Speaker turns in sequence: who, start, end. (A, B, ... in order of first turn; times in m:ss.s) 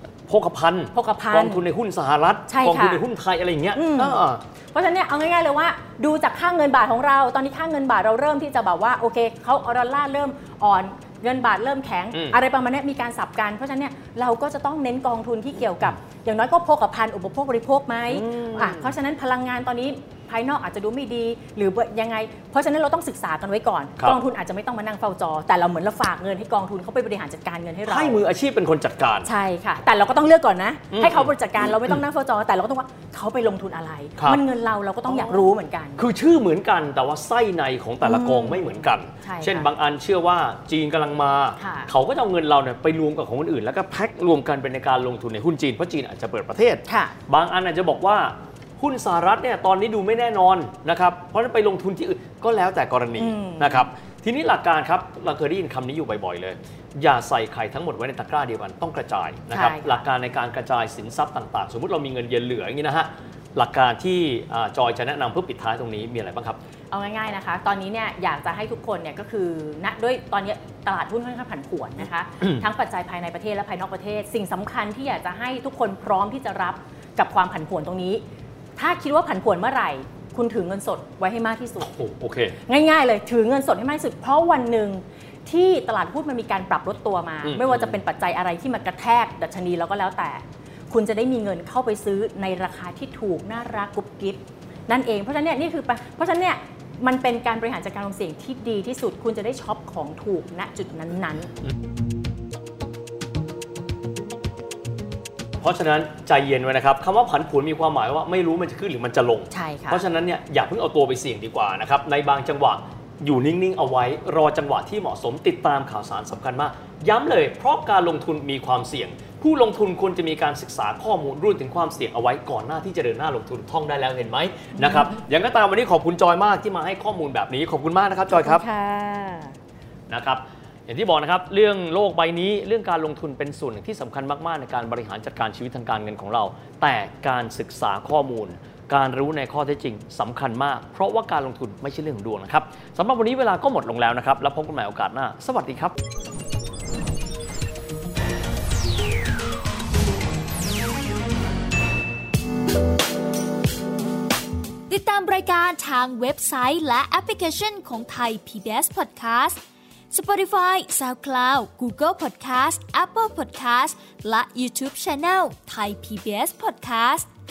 0:00.3-0:04.4 A
0:00.9-0:01.6 B
0:02.5-0:03.0 B
0:03.7-0:04.2 B
0:04.7-0:28.2 B
0:12.1-0:12.4 A
0:18.1-0:18.9 A
0:27.8-0:29.3 A
0:29.2-0:36.0 B
0:30.9-0:32.0 A
0:34.2-0:34.4 A
0:35.1-1:06.6 A
0:38.0-0:39.7 B
0:41.6-0:41.9 B
0:46.9-0:47.1 B
0:53.2-0:53.9 B
0:59.5-1:00.0 B
1:06.9-1:18.2 B
1:18.8-1:21.9 B
1:21.8-1:22.6 A
1:22.6-1:41.5 B
1:27.4-1:28.0 A
1:45.6-2:08.6 A
1:49.5-1:50.0 B
2:04.8-2:05.1 B
2:08.3-2:09.5 B
2:10.1-2:25.9 A
2:34.9-2:39.6 C
2:40.1-2:47.3 C